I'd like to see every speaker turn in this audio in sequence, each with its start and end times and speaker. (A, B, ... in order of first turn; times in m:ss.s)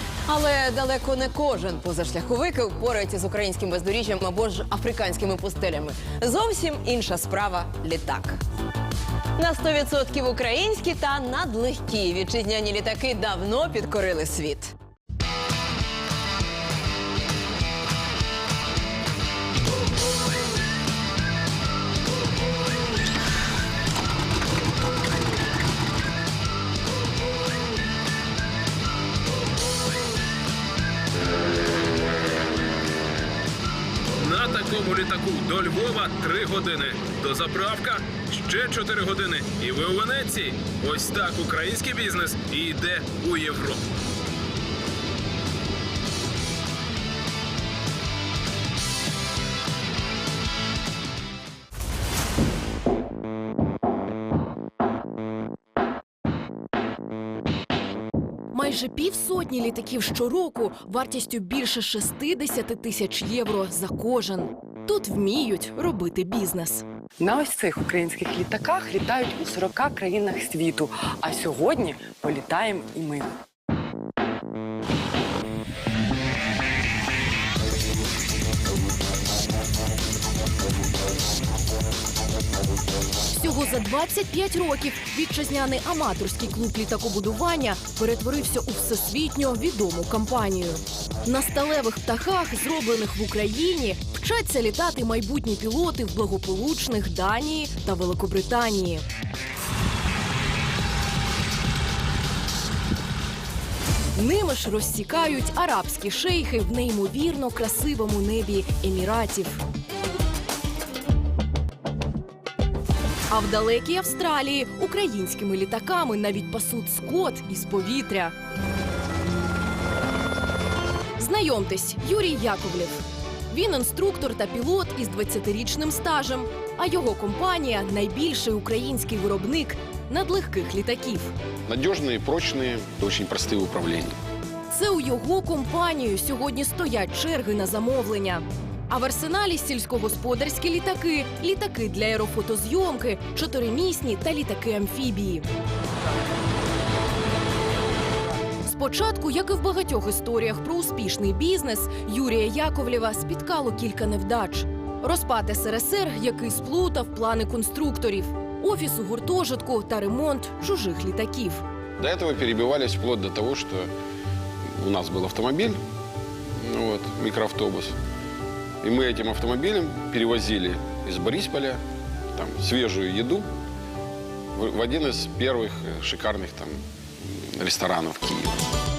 0:00.2-0:08.4 A
0:09.4-0:14.7 A
0:34.2-0:43.8 B
0:58.5-1:06.8 C
1:07.2-1:13.3 D
1:23.3-1:39.0 C
1:44.1-1:49.6 C
1:53.3-1:58.3 C
2:01.2-2:11.3 C
2:11.7-2:14.2 E
2:14.7-2:25.4 C
2:28.6-2:41.6 C
2:42.0-2:43.9 E
2:44.7-2:45.8 E
2:46.6-2:47.9 E
2:48.8-2:51.8 E
2:52.3-2:53.4 E
2:54.5-2:58.6 E